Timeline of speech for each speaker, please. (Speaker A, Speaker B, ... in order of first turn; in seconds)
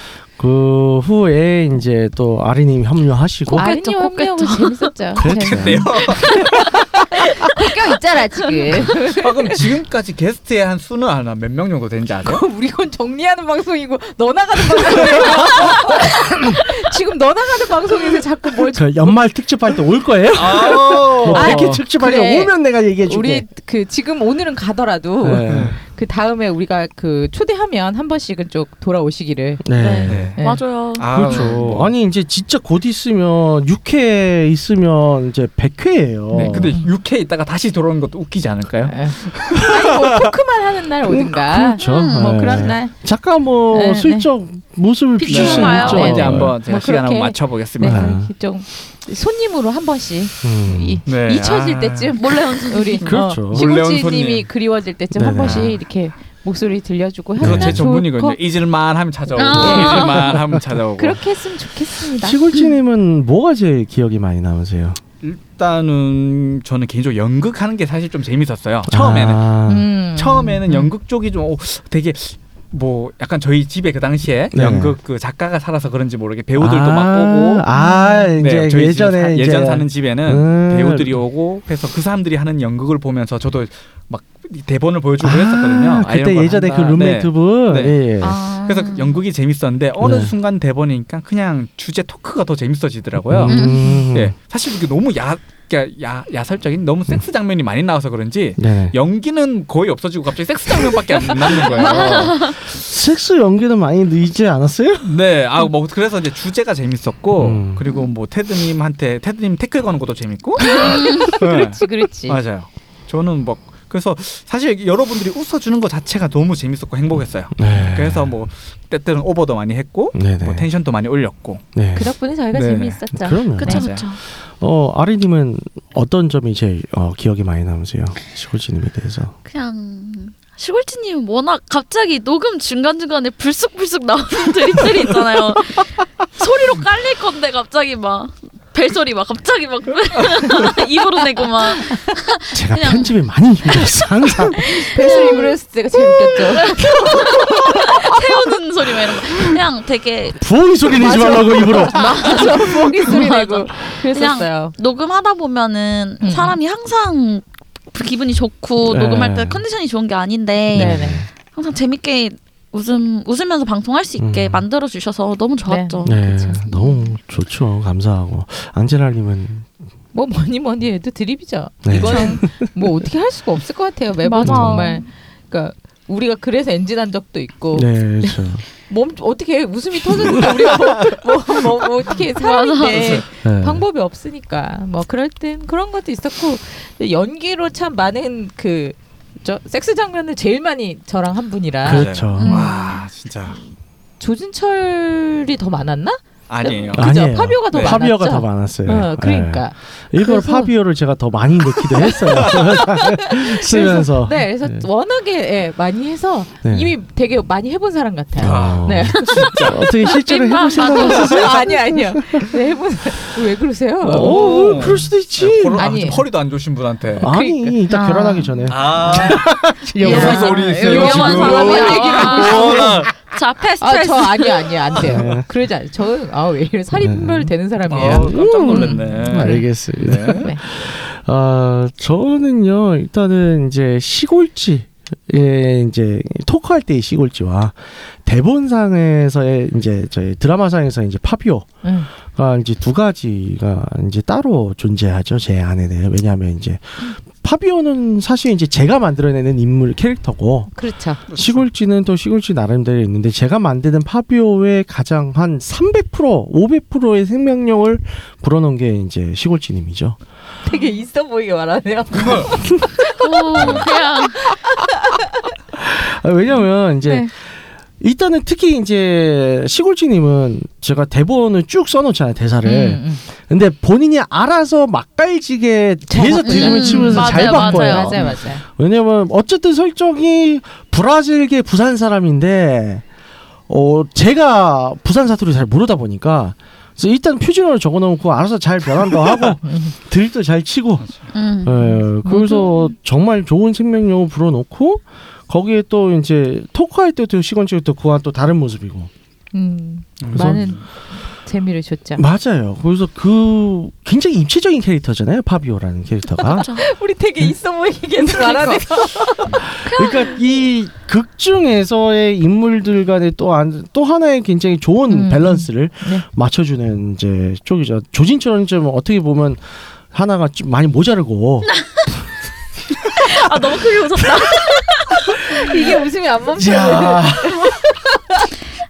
Speaker A: 0.3-3.7, 5.2-6.1, 18.7-23.5, 25.2-25.8, 29.6-30.4, 31.1-36.8, 41.0-46.5, 47.8-48.3, 50.4-51.0, 53.0-53.7, 55.1-55.8, 57.4-57.9, 62.2-65.0, 68.9-69.9, 74.5-75.0, 76.6-81.2, 85.2-88.4, 90.0-90.3, 93.2-94.3, 98.6-99.0, 101.8-105.1, 107.4-107.8, 117.5-118.3, 120.1-120.7, 121.8-122.1, 123.1-129.4, 142.5-144.6, 150.4-152.4, 158.8-159.6, 160.7-161.3, 164.2-164.7, 166.1-169.7, 171.8-172.7, 174.4-174.9, 177.7-178.7, 180.2-180.5, 183.4-183.8, 191.8-192.7, 196.9-204.9, 206.6-206.9, 208.4-212.5, 214.0-215.9, 217.2-222.9, 225.1-225.5, 226.9-250.7, 251.3-260.2, 265.7-267.3, 268.0-283.0, 283.7-291.1, 291.6-299.1, 300.3-300.7, 302.2-306.8, 309.5-321.8, 326.6-327.8
Speaker B: 3.5-4.9, 8.5-8.8, 29.8-31.6, 41.8-42.4, 45.2-46.2, 52.2-53.1, 59.4-60.3, 88.2-89.2, 93.5-94.0, 101.7-102.6, 110.6-111.3, 123.6-124.2, 129.5-143.1, 144.6-145.6, 146.2-150.4, 151.0-167.1, 172.1-172.4, 174.2-175.1, 182.3-183.2, 192.4-193.1, 209.9-211.6, 217.9-218.5, 220.0-225.0, 263.1-264.6, 276.4-278.2, 291.3-292.8, 306.5-306.8, 308.3-309.0, 309.9-310.3, 323.1-325.1
Speaker C: 3.5-9.7, 12.2-19.2, 21.3-29.7, 30.4-30.6, 36.3-36.9, 38.9-42.9, 43.7-44.3, 45.7-58.4, 59.4-60.4, 61.0-62.4, 69.7-70.9, 77.7-78.3, 110.6-112.4, 122.0-123.8, 144.6-148.3, 150.9-154.7, 156.2-156.6, 160.7-161.2, 165.7-166.6, 170.1-192.1, 194.2-200.7, 202.0-209.6, 211.0-214.7, 215.8-216.2, 217.2-217.8, 219.0-219.4, 219.9-223.1, 223.7-229.7, 241.8-242.1, 250.7-251.2, 260.6-265.5, 272.6-273.2, 276.1-278.6, 289.6-289.9, 292.3-292.6, 299.5-302.2, 306.4-309.6, 315.1-316.2, 324.9-328.5
Speaker D: 5.2-6.7, 9.0-12.4, 15.1-15.8, 20.3-21.8, 25.5-25.8, 30.1-30.4, 30.9-31.9, 36.3-40.4, 45.2-48.1, 51.1-52.1, 53.1-54.5, 55.4-55.8, 57.4-61.2, 65.2-69.5, 70.1-77.7, 78.4-88.0, 88.6-102.6, 105.0-121.6, 122.5-123.0, 123.7-124.1, 140.2-140.7, 180.8-181.2, 182.9-183.2, 191.8-193.6, 196.5-197.1, 197.7-198.0, 202.3-202.8, 208.4-209.8, 214.1-217.3, 218.7-223.1, 227.9-230.5, 251.3-251.7, 262.1-262.5, 263.6-263.9, 291.0-291.3, 300.2-300.9